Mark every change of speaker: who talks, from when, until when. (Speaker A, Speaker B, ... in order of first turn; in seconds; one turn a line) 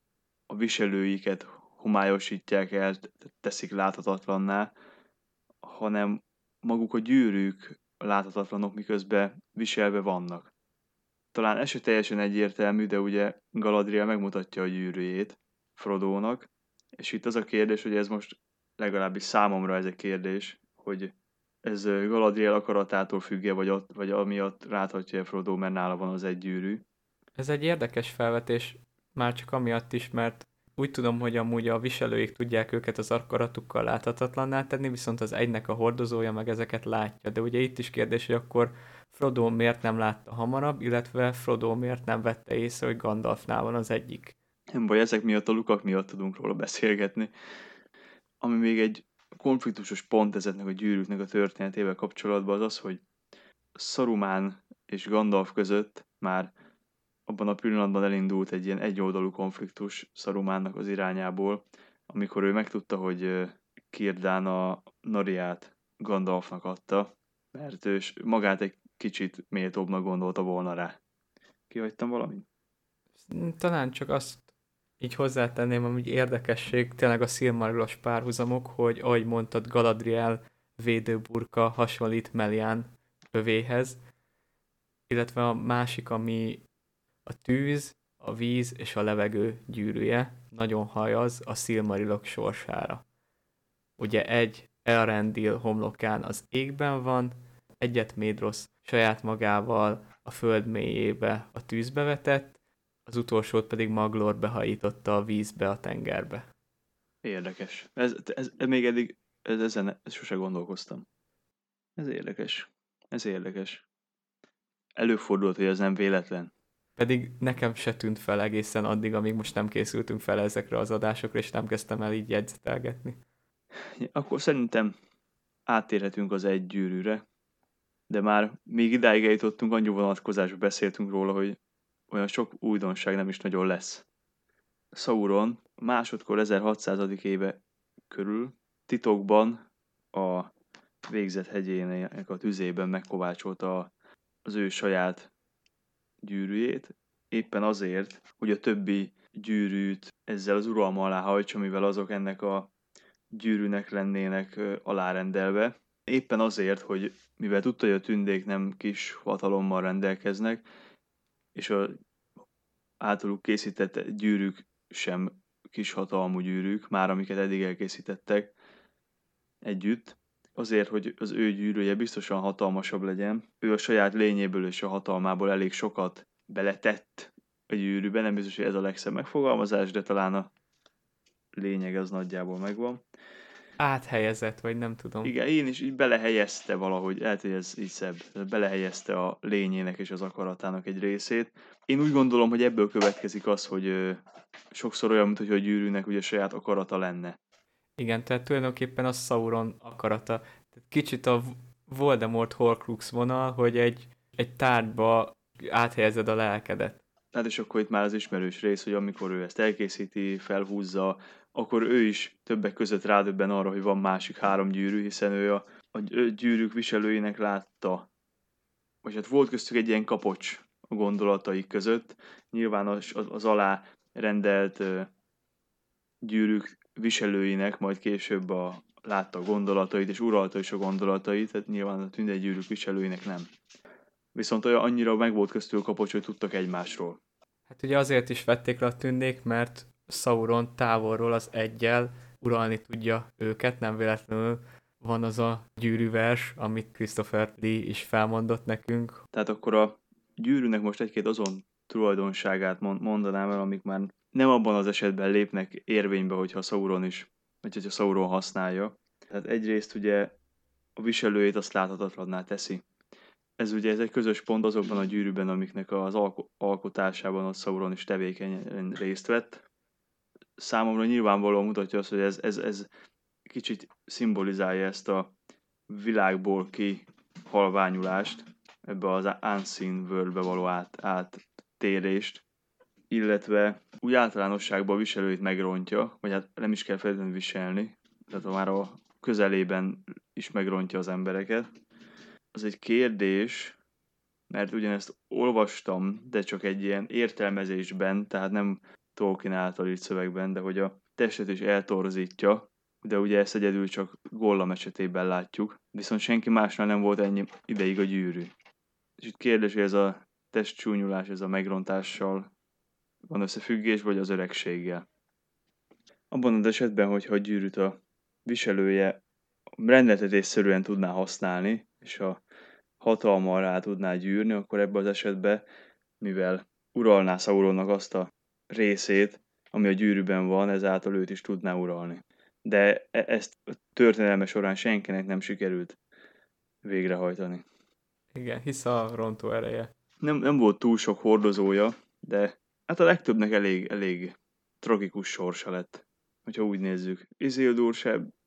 Speaker A: 0.5-4.7
Speaker A: 5.6-10.5
Speaker A: 11.3-21.1
Speaker A: 21.6-26.8
Speaker B: 27.4-44.3
Speaker A: 44.7-47.3
Speaker A: 48.4-53.0
Speaker A: 53.8-56.5
Speaker A: 57.3-71.0
Speaker A: 71.7-72.4
Speaker B: 73.2-74.5
Speaker B: 75.0-84.0
Speaker B: 85.1-86.6
Speaker B: 87.2-93.0
Speaker B: 94.0-106.5
Speaker A: 107.2-111.0
Speaker A: 112.0-113.8
Speaker A: 115.0-116.5
Speaker B: 117.0-123.2
Speaker A: 124.0-124.9
Speaker A: 125.7-127.2
Speaker A: 128.1-131.6
Speaker A: 132.1-134.0
Speaker A: 134.9-137.6
Speaker A: 138.1-139.6
Speaker A: 140.1-140.5
Speaker A: 141.1-143.9
Speaker A: 144.4-145.3
Speaker A: 146.2-152.7
Speaker A: 153.3-160.6
Speaker A: 161.5-161.9
Speaker A: 163.0-168.5
Speaker A: 169.6-180.5
Speaker A: 181.5-183.0
Speaker B: 183.8-185.3
Speaker A: 185.2-194.2
Speaker A: 194.7-197.4
Speaker B: 198.0-207.0
Speaker A: 207.3-218.1
Speaker A: 219.0-225.1
Speaker A: 226.2-233.5
Speaker A: 234.3-237.2
Speaker B: 237.7-249.2
Speaker A: 249.3-260.3
Speaker A: 261.0-262.8
Speaker A: 263.6-269.6
Speaker A: 270.6-272.9
Speaker A: 273.4-275.3
Speaker A: 275.9-282.4
Speaker A: 283.1-291.7
Speaker A: 292.5-293.8
Speaker A: 294.5-308.5
Speaker A: 309.2-312.5
Speaker A: 313.3-315.0
Speaker A: 316.3-319.2
Speaker A: 319.8-322.4
Speaker A: 323.0-325.6
Speaker A: 326.2-336.0
Speaker A: 336.8-337.6
Speaker B: 338.3-339.9
Speaker A: 340.2-348.3